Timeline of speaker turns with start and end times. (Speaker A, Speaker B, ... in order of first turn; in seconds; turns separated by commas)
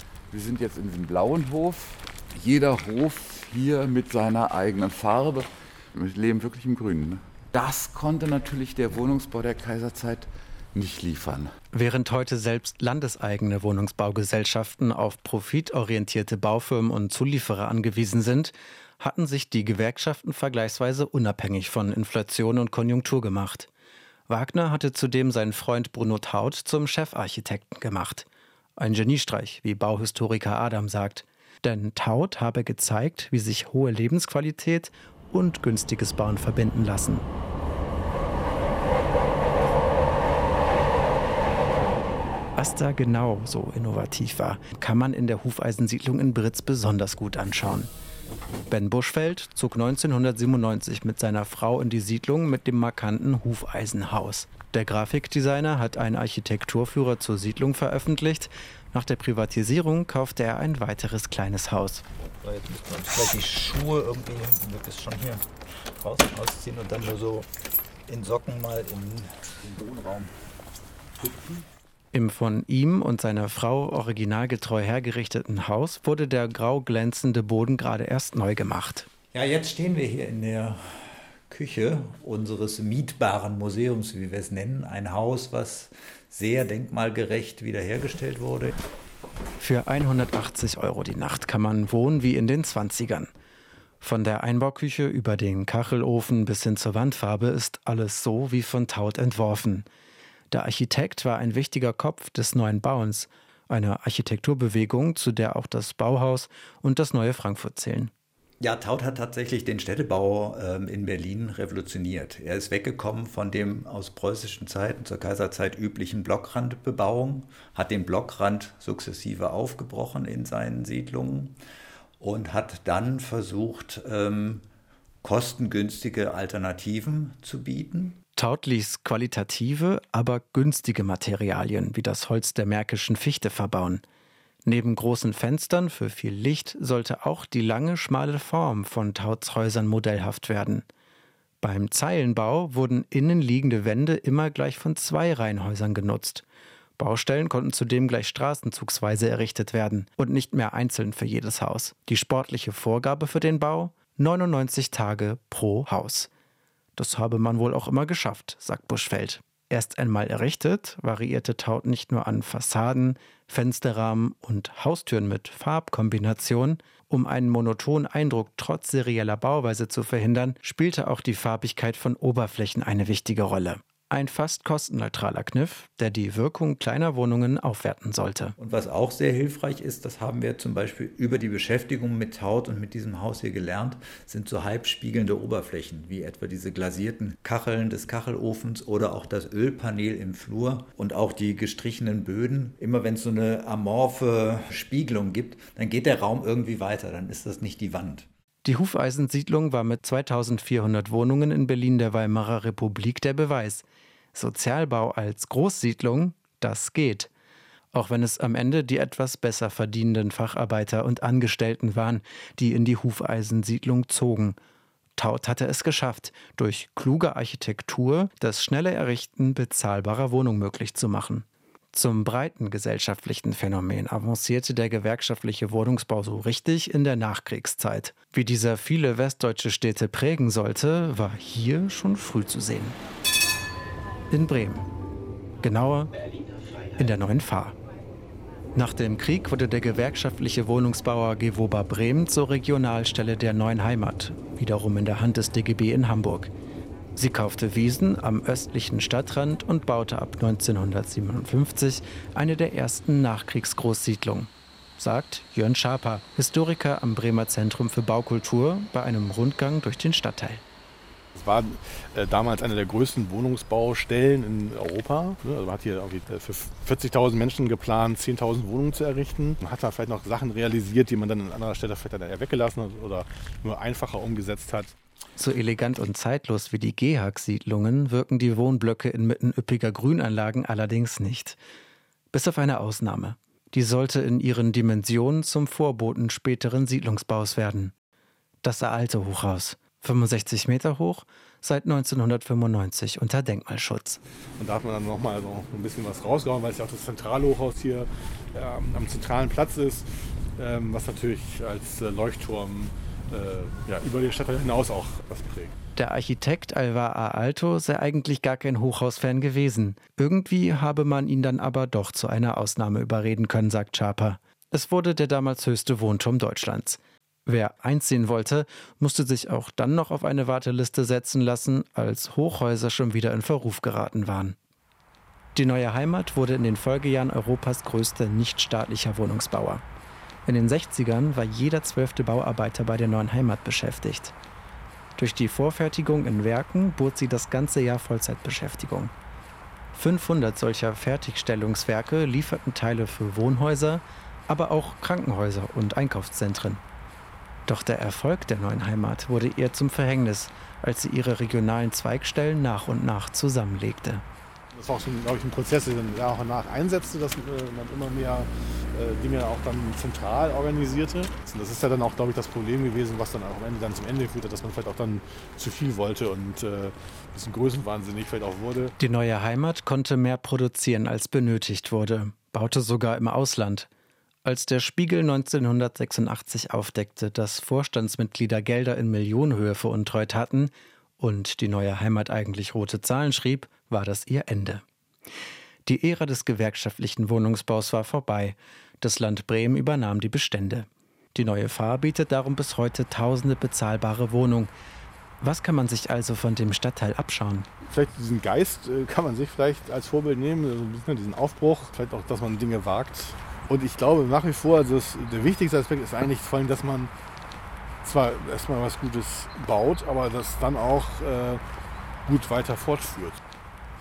Speaker A: 0.3-11.5, Speaker B: 11.7-23.7, Speaker B: 24.3-37.2, Speaker B: 42.5-47.9, Speaker B: 48.7-62.0, Speaker C: 62.2-67.5, Speaker C: 68.1-70.3, Speaker C: 71.2-71.6, Speaker B: 72.1-79.1, Speaker C: 79.3-88.7, Speaker B: 89.6-93.3, Speaker B: 94.0-99.8, Speaker B: 100.5-108.1, Speaker C: 108.6-121.5, Speaker C: 122.2-124.6, Speaker C: 125.2-128.2, Speaker B: 128.4-134.0, Speaker B: 134.6-140.8, Speaker B: 141.6-146.4, Speaker B: 147.0-156.3, Speaker B: 156.9-178.5, Speaker C: 178.6-198.3, Speaker B: 198.6-207.3, Speaker B: 207.9-214.6, Speaker B: 215.2-233.0, Speaker B: 234.3-234.8, Speaker B: 235.6-236.1, Speaker B: 237.0-237.8, Speaker B: 238.7-246.5, Speaker B: 247.2-260.6, Speaker D: 261.3-274.9, Speaker B: 275.4-281.6, Speaker B: 282.3-287.9, Speaker B: 288.6-294.2, Speaker D: 294.6-300.1, Speaker D: 300.6-305.7, Speaker B: 305.9-324.6, Speaker B: 325.5-329.8, Speaker B: 330.4-334.3, Speaker B: 335.2-339.1, Speaker B: 339.9-346.8, Speaker B: 347.7-354.2, Speaker D: 354.7-368.9, Speaker B: 369.0-373.9, Speaker B: 374.4-384.8, Speaker B: 385.9-394.7, Speaker B: 395.4-397.7, Speaker D: 397.9-407.1, Speaker D: 408.0-411.6, Speaker D: 412.2-413.4